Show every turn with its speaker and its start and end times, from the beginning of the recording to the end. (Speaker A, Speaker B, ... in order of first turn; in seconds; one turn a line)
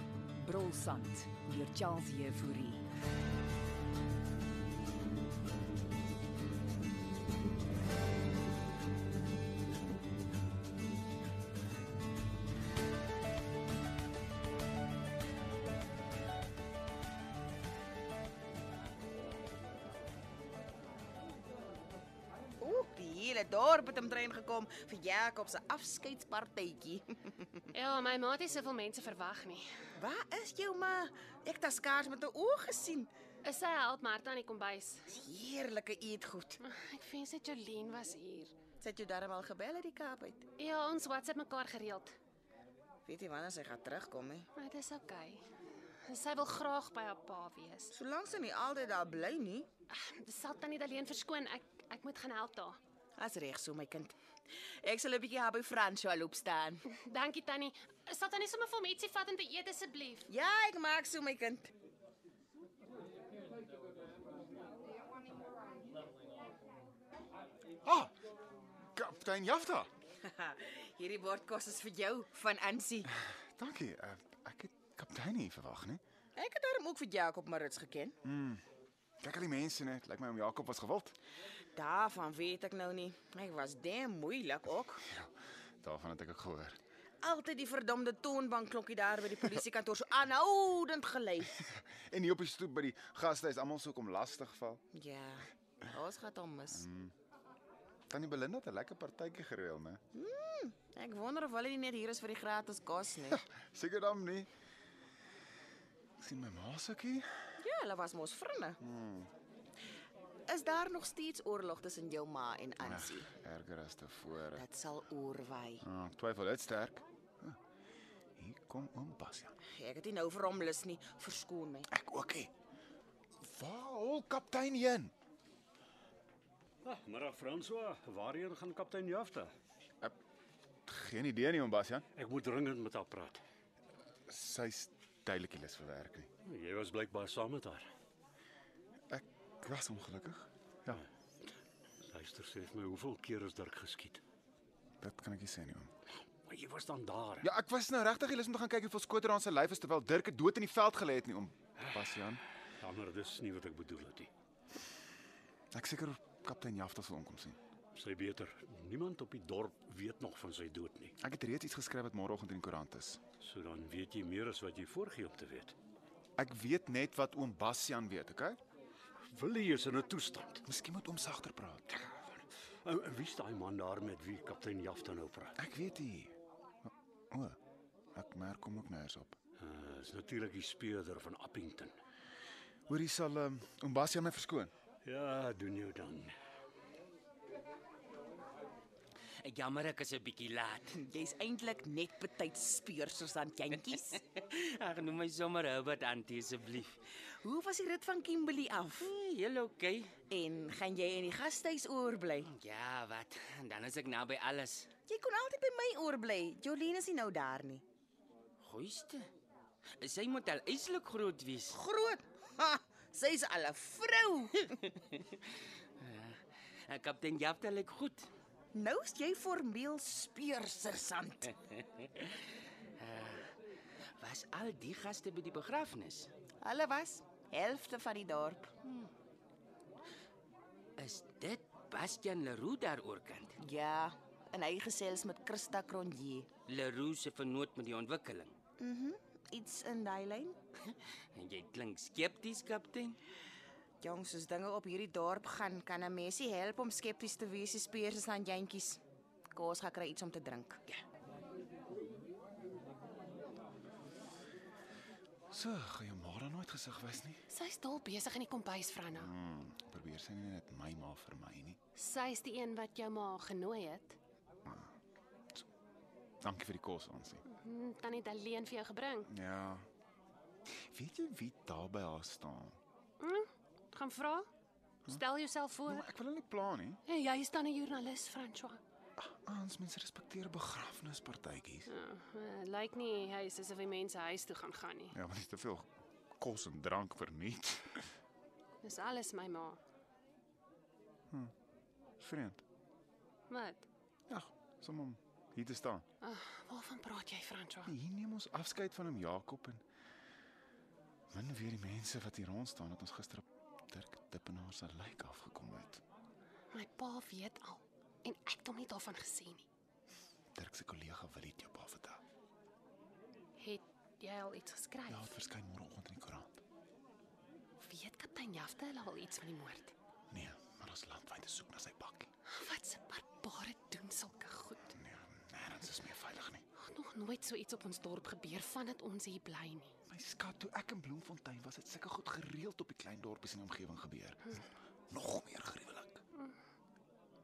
Speaker A: 0.4-2.9
Speaker B: 22.6-27.6
Speaker C: 27.7-29.6
Speaker B: 30.0-33.1
Speaker C: 33.4-35.0
Speaker B: 35.1-36.6
Speaker C: 36.6-38.5
Speaker B: 38.8-40.5
Speaker C: 40.6-42.1
Speaker B: 43.0-44.5
Speaker C: 44.5-45.4
Speaker C: 46.0-47.9
Speaker B: 47.9-49.7
Speaker C: 49.9-52.8
Speaker B: 53.2-54.1
Speaker B: 54.8-56.8
Speaker C: 56.9-60.3
Speaker B: 60.3-61.7
Speaker D: 67.8-68.1
Speaker D: 69.0-69.9
Speaker B: 70.2-73.1
Speaker D: 73.1-76.0
Speaker B: 76.3-78.2
Speaker D: 78.2-78.6
Speaker D: 79.2-81.2
Speaker B: 81.7-85.1
Speaker D: 85.8-86.8
Speaker B: 87.2-91.5
Speaker D: 91.6-94.8
Speaker B: 94.9-96.8
Speaker D: 96.7-97.1
Speaker D: 98.1-100.0
Speaker B: 100.1-103.4
Speaker D: 103.3-104.5
Speaker D: 106.2-107.5
Speaker B: 107.6-108.8
Speaker D: 108.8-109.3
Speaker B: 110.5-113.3
Speaker D: 112.8-114.7
Speaker B: 114.5-115.8
Speaker D: 115.8-117.6
Speaker D: 118.4-119.5
Speaker B: 119.7-121.9
Speaker D: 121.9-122.5
Speaker D: 123.4-125.1
Speaker E: 126.8-129.5
Speaker D: 130.8-132.1
Speaker E: 132.2-133.4
Speaker D: 134.3-136.3
Speaker E: 136.4-137.9
Speaker D: 139.1-141.0
Speaker E: 142.1-144.2
Speaker D: 145.0-145.9
Speaker E: 146.4-147.5
Speaker D: 147.4-152.4
Speaker E: 152.8-154.3
Speaker D: 155.7-157.6
Speaker E: 157.9-161.1
Speaker D: 161.2-163.2
Speaker E: 163.4-165.7
Speaker D: 166.4-168.6
Speaker E: 169.3-170.6
Speaker D: 170.7-171.9
Speaker E: 172.1-175.5
Speaker D: 175.6-177.6
Speaker D: 178.1-179.4
Speaker E: 179.6-181.9
Speaker D: 182.9-184.7
Speaker E: 185.0-186.3
Speaker F: 189.4-191.0
Speaker B: 190.9-194.2
Speaker F: 194.2-197.0
Speaker B: 197.2-199.1
Speaker F: 199.0-200.1
Speaker B: 200.3-202.5
Speaker F: 202.4-204.9
Speaker B: 205.1-207.8
Speaker F: 208.6-209.3
Speaker F: 210.0-211.8
Speaker B: 211.7-214.8
Speaker F: 216.0-218.3
Speaker B: 218.7-221.5
Speaker F: 223.0-223.5
Speaker F: 224.2-226.3
Speaker B: 226.6-228.7
Speaker F: 228.8-229.1
Speaker F: 231.0-233.5
Speaker B: 233.6-236.5
Speaker F: 236.7-238.5
Speaker B: 238.8-240.6
Speaker F: 241.3-243.2
Speaker B: 244.0-249.0
Speaker B: 249.5-250.8
Speaker D: 255.5-257.4
Speaker C: 257.5-259.3
Speaker D: 259.1-261.8
Speaker C: 261.9-264.2
Speaker D: 264.6-264.9
Speaker D: 266.4-267.4
Speaker C: 267.5-269.3
Speaker D: 269.3-269.9
Speaker D: 270.7-272.8
Speaker C: 273.2-274.5
Speaker C: 275.1-276.1
Speaker D: 275.9-277.0
Speaker C: 277.1-278.8
Speaker D: 279.2-281.9
Speaker C: 281.9-285.1
Speaker D: 285.1-288.1
Speaker C: 288.8-289.8
Speaker D: 292.2-292.6
Speaker C: 293.5-293.9
Speaker D: 294.3-296.0
Speaker C: 296.2-297.9
Speaker D: 297.9-299.8
Speaker D: 301.3-306.0
Speaker C: 306.7-309.7
Speaker D: 310.5-312.2
Speaker C: 313.6-315.3
Speaker D: 315.1-316.6
Speaker C: 317.8-319.9
Speaker D: 320.3-322.3
Speaker C: 322.5-324.9
Speaker D: 324.9-326.6
Speaker C: 326.8-329.9
Speaker D: 330.1-334.6
Speaker D: 335.1-336.2